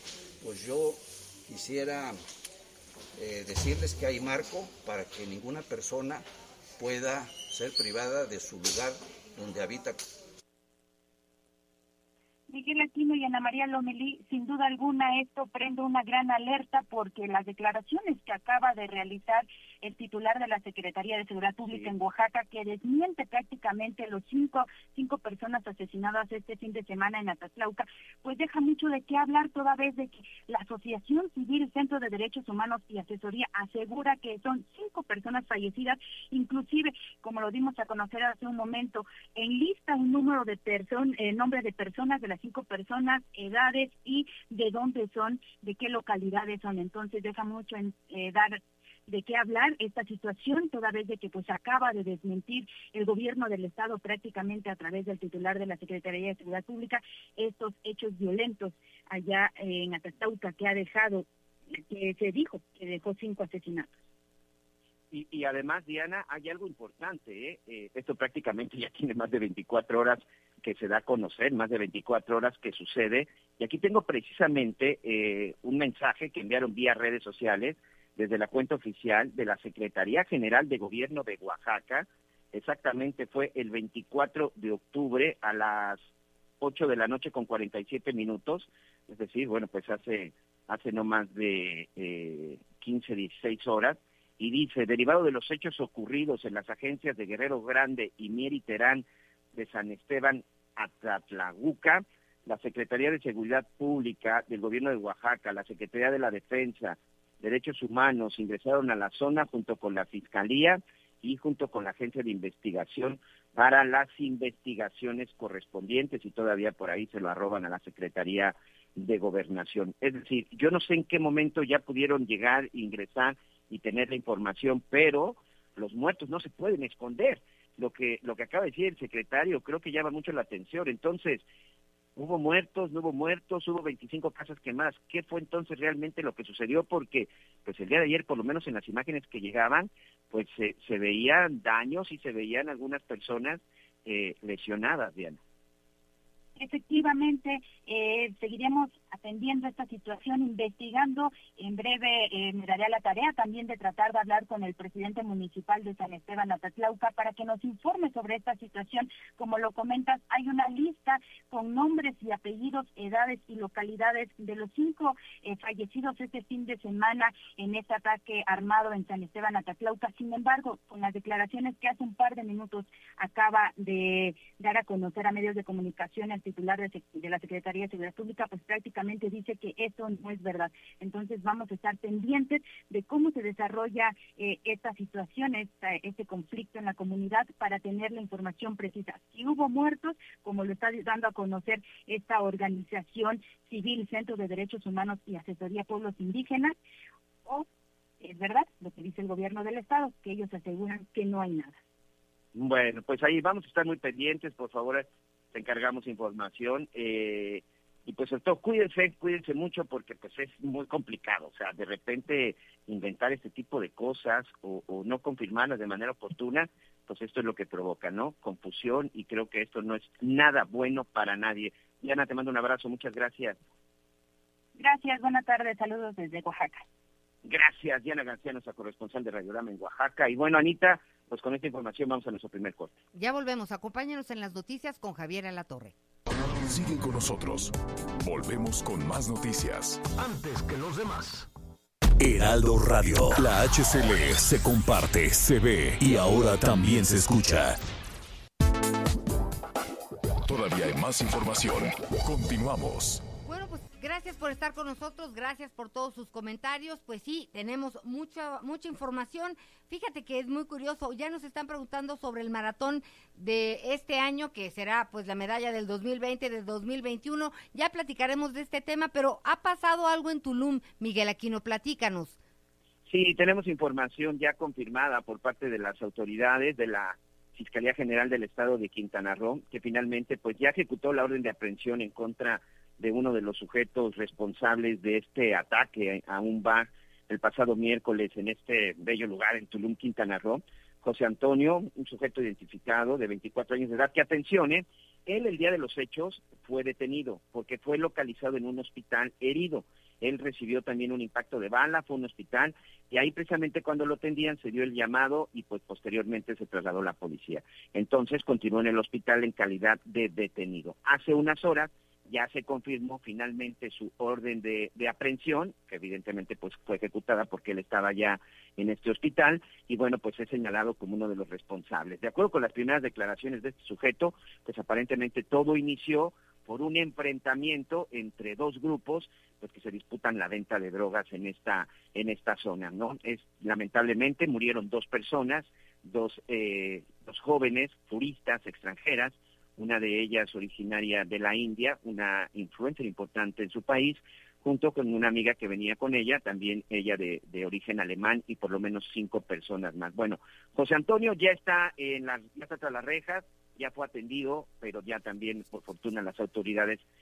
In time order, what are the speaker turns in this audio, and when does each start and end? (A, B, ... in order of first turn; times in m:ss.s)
0:00.4-0:02.2 A
0:03.2-0:06.2 A
0:06.8-0:10.0 A
0:12.5-1:03.9 B
1:05.1-1:26.1 C
1:26.6-2:11.4 C
2:12.2-2:25.4 C
2:26.6-3:16.8 B
3:18.2-3:21.8 B
3:22.5-3:43.6 C
3:44.8-3:46.8 B
3:47.4-3:53.0 C
3:53.2-3:55.9 D
3:56.6-4:00.0 E
4:00.2-4:01.5 A
4:02.2-4:07.8 E
4:10.4-4:13.2 E
4:13.5-4:32.4 D
4:33.1-5:57.0 C